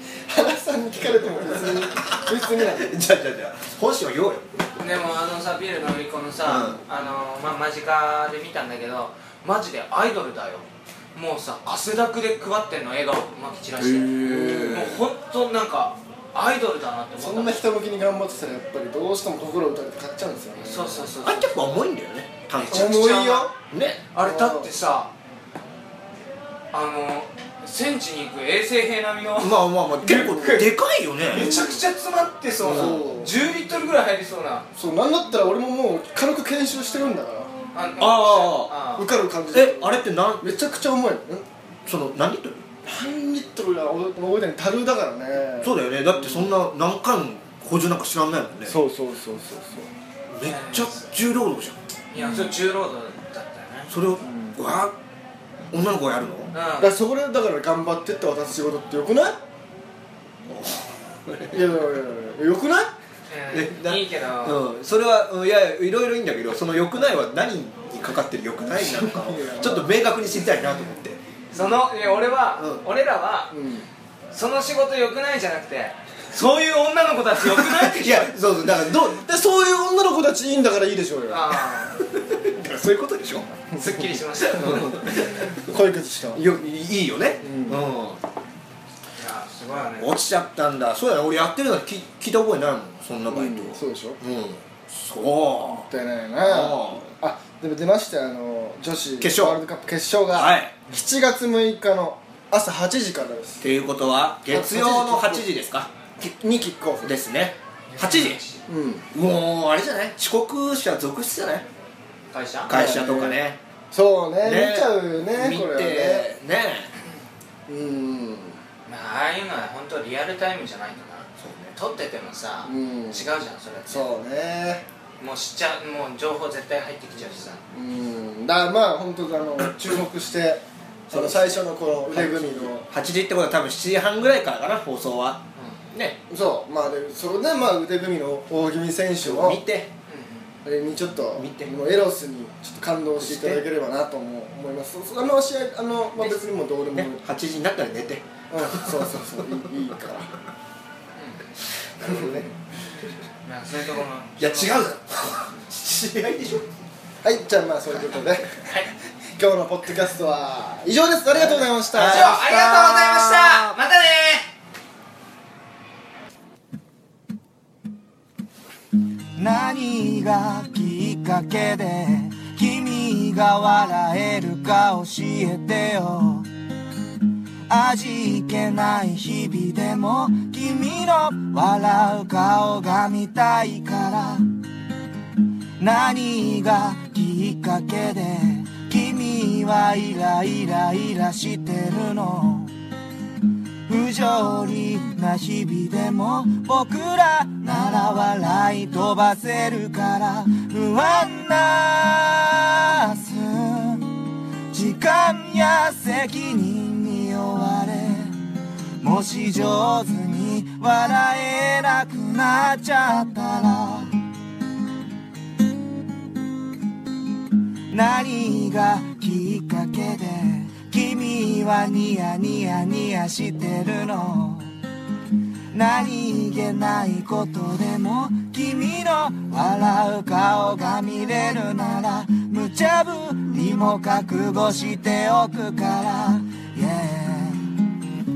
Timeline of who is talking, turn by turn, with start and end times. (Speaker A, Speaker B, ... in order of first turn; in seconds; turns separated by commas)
Speaker A: 0.3-3.0, Speaker B: 1.6-4.5, Speaker C: 4.8-17.6, Speaker B: 6.4-6.8, Speaker B: 13.8-15.0, Speaker A: 14.2-14.9, Speaker A: 17.2-21.1, Speaker C: 20.6-21.7, Speaker B: 21.2-23.2, Speaker C: 22.7-23.5, Speaker A: 22.7-23.5, Speaker B: 23.7-24.0, Speaker C: 24.1-25.1, Speaker A: 24.2-24.7, Speaker C: 26.7-30.7, Speaker B: 29.4-31.6, Speaker A: 30.1-30.6, Speaker C: 31.3-34.7, Speaker A: 31.4-31.8, Speaker B: 32.6-33.1, Speaker A: 32.6-33.3, Speaker A: 34.8-37.5, Speaker C: 37.7-39.1, Speaker B: 38.0-38.7, Speaker A: 39.0-41.5, Speaker B: 39.5-40.5, Speaker B: 41.9-42.6, Speaker A: 42.8-46.5, Speaker B: 45.6-48.8, Speaker A: 48.7-49.9, Speaker B: 50.3-51.8, Speaker C: 50.5-51.1, Speaker C: 52.1-53.9, Speaker A: 52.2-52.5, Speaker B: 53.9-55.0, Speaker A: 54.2-54.5, Speaker B: 55.7-56.5, Speaker C: 56.5-56.9, Speaker A: 56.8-59.4, Speaker B: 60.5-61.6, Speaker A: 61.5-62.9, Speaker C: 63.3-64.6, Speaker B: 63.5-71.2, Speaker A: 68.8-70.0, Speaker C: 71.5-73.5, Speaker B: 72.6-72.8, Speaker A: 73.5-73.9, Speaker C: 74.3-78.3, Speaker B: 77.6-79.3, Speaker A: 79.2-81.6, Speaker C: 81.3-82.0, Speaker B: 82.0-83.5, Speaker C: 83.8-85.5, Speaker B: 84.6-85.7, Speaker A: 84.6-86.4, Speaker B: 86.3-88.2, Speaker A: 87.4-87.8, Speaker C: 89.2-90.2, Speaker B: 90.0-95.9, Speaker A: 93.3-94.2, Speaker A: 95.8-103.7, Speaker B: 96.5-97.1, Speaker B: 99.2-99.6, Speaker B: 100.3-100.8, Speaker B: 103.6-105.9, Speaker A: 104.5-105.5, Speaker A: 106.2-107.1, Speaker B: 107.0-108.4, Speaker C: 107.9-108.6, Speaker A: 108.7-109.0, Speaker B: 109.1-111.7, Speaker C: 112.3-112.7, Speaker B: 112.7-113.6, Speaker A: 112.7-113.4, Speaker A: 113.9-116.3, Speaker B: 114.4-116.9, Speaker A: 117.7-118.6, Speaker C: 118.9-124.1, Speaker B: 121.4-121.7, Speaker A: 122.7-123.3, Speaker A: 123.9-124.8, Speaker C: 125.2-127.6, Speaker A: 127.7-132.9, Speaker B: 129.6-130.0, Speaker B: 131.1-136.2, Speaker A: 136.3-139.6, Speaker B: 139.2-139.9, Speaker C: 140.1-140.5, Speaker A: 140.7-147.2, Speaker B: 141.3-141.7, Speaker B: 143.2-143.6, Speaker B: 146.9-149.7, Speaker A: 148.5-150.3, Speaker B: 152.0-152.5, Speaker A: 152.0-152.5, Speaker C: 153.4-154.8, Speaker B: 154.4-156.7, Speaker A: 157.2-158.6, Speaker C: 158.7-158.9, Speaker A: 159.4-162.4, Speaker B: 161.3-163.8, Speaker C: 162.0-164.5, Speaker D: 169.4-176.5, Speaker D: 177.7-184.5, Speaker D: 185.8-192.7, Speaker D: 193.9-208.4, Speaker D: 209.0-214.2, Speaker D: 217.9-224.7, Speaker D: 225.7-238.0